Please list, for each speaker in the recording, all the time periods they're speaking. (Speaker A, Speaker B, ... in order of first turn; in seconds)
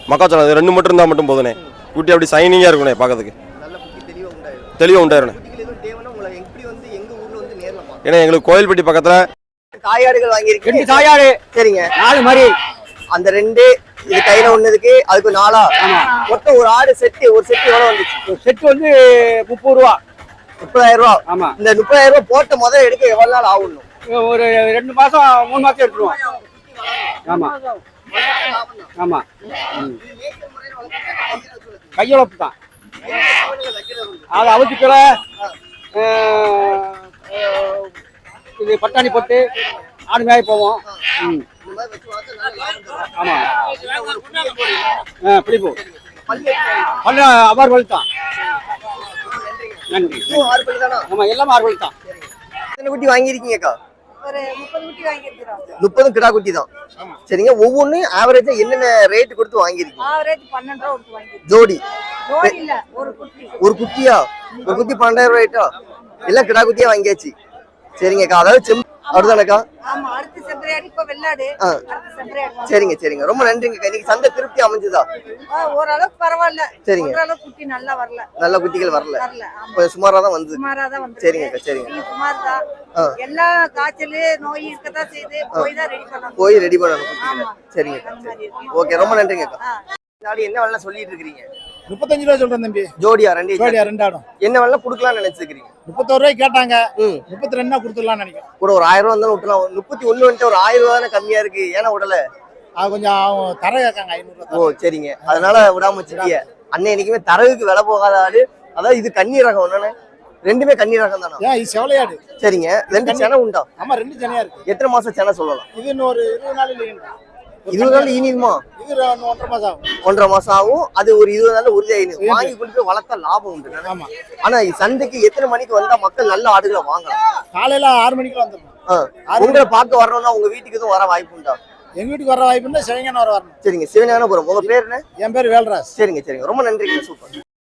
Speaker A: 0.1-3.3, 4.8-5.3, 8.0-9.2
Speaker B: 3.6-8.0, 9.7-11.9, 13.1-15.7, 16.2-18.2, 20.6-23.8, 25.9-27.2, 28.1-28.9, 29.8-32.0, 33.0-34.7, 41.6-45.0, 45.8-46.9, 49.0-51.1, 52.0-53.8, 55.8-56.7, 57.3-60.1, 61.4-61.8, 63.6-65.7, 66.2-67.3, 68.0-69.7, 72.6-75.0, 76.8-77.2, 78.4-80.6, 81.2-82.0, 86.3-89.6, 90.2-91.5, 93.0-93.9, 94.4-95.7, 97.0-97.2, 98.6-102.2, 104.5-109.9, 110.4-111.4, 112.4-113.7, 114.7-115.7, 117.7-118.6, 120.0-127.2, 128.9-131.6, 133.6-135.0, 135.9-137.3
Speaker C: 10.6-11.4, 11.9-12.5, 15.8-16.1, 18.3-20.0, 21.3-21.6, 24.1-26.2, 27.2-27.8, 29.0-30.0, 32.0-32.5, 34.3-35.2, 35.9-37.9, 38.6-39.4, 40.1-41.4, 43.1-43.6, 45.2-45.8, 47.0-48.0, 49.9-50.5, 51.1-51.9
Speaker D: 54.2-55.7, 60.0-61.4, 62.3-63.6, 69.1-72.9, 75.5-78.3, 79.2-79.8, 80.5-82.6, 83.2-86.6, 87.2-89.0
Speaker E: 91.9-92.9, 93.6-94.2, 95.8-98.5, 102.8-106.3, 111.4-112.2, 112.9-114.6, 115.7-117.1, 117.7-119.9, 122.2-122.5, 123.8-124.1, 127.5-128.7, 129.3-129.7, 132.0-133.5, 135.2-135.9